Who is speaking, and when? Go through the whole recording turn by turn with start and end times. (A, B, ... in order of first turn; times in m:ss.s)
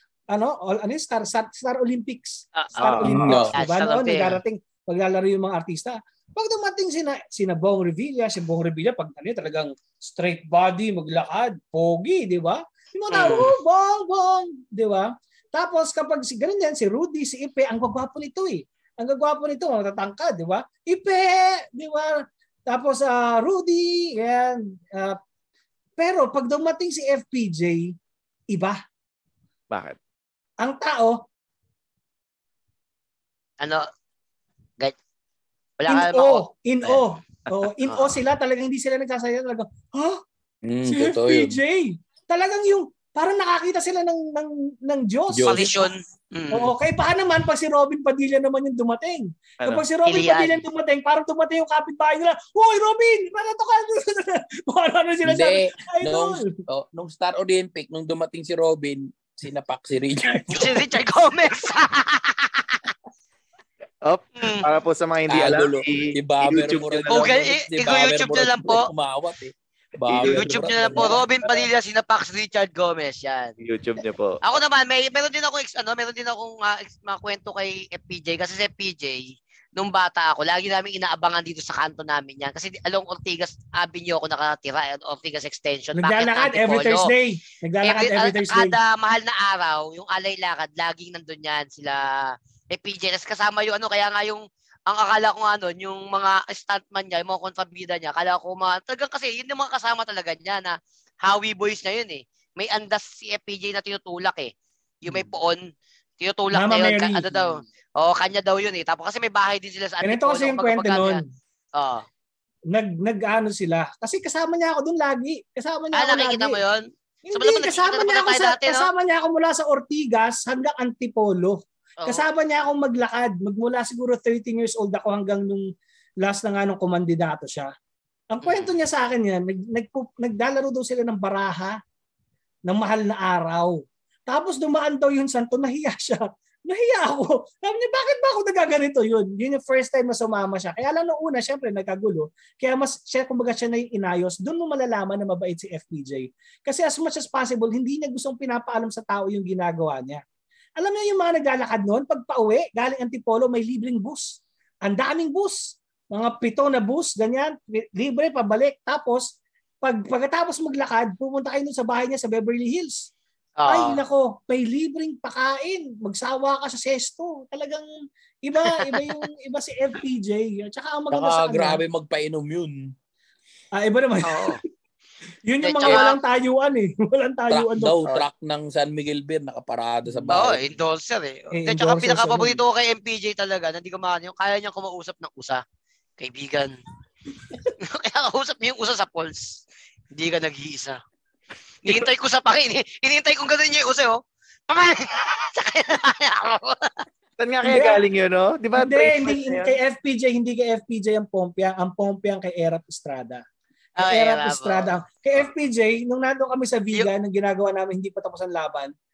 0:00.3-0:25.2 A
0:02.6-0:04.4 B
0:02.8-0:03.4 C
0:03.0-0:03.5 D
0:13.1-0:13.5 B
0:26.0-0:27.9 A
0:28.5-0:28.8 A
0:29.7-0:30.0 C
0:30.6-0:31.2 A
0:33.6-0:33.9 B
0:35.8-0:36.4 B
0:35.9-0:40.2 A
0:37.9-0:38.2 B
0:40.6-0:41.6 D
0:40.8-0:45.8 A
0:45.3-0:45.9 D
0:45.5-0:46.7 B
0:46.5-0:56.4 A
0:50.1-0:50.6 B
0:55.2-1:00.9 D
1:00.5-1:02.8 B
1:04.0-1:07.4 C
1:04.4-1:04.7 B
1:05.3-1:11.2 D
1:07.1-1:08.9 B
1:10.0-1:11.7 C
1:10.2-1:13.5 B
1:13.6-1:14.4 C
1:14.4-1:27.1 B
1:26.0-1:28.8 A
1:27.8-1:44.5 B
1:45.0-1:45.6 B
1:46.2-1:51.2 B
1:46.5-1:47.6 A
1:50.0-1:51.2 A
1:51.8-1:52.0 B
1:52.7-1:56.6 A
1:55.9-1:58.9 B
1:57.3-2:05.7 A
2:06.2-2:07.7 A
2:08.3-2:11.8 A
2:08.4-2:08.7 B
2:12.7-2:30.2 A
2:30.8-2:35.6 A
2:36.1-2:39.3 A
2:39.8-2:43.0 A
2:43.6-2:44.0 B
2:43.6-2:47.9 A
2:48.4-2:51.8 A
2:48.6-2:49.2 B
2:51.1-2:52.9 D
2:53.8-2:54.6 A
2:54.2-2:54.6 B
2:55.5-2:58.2 A
2:55.6-2:56.2 B
2:57.5-3:00.7 D
3:00.0-3:00.4 A
3:00.3-3:05.6 B
3:01.5-3:02.6 A
3:06.2-3:06.8 B
3:07.8-3:09.6 B
3:10.1-3:11.0 B
3:11.8-3:17.0 B
3:17.4-3:19.8 C
3:17.6-3:18.0 A
3:18.8-3:23.4 A
3:24.0-3:24.9 B
3:24.0-3:28.9 A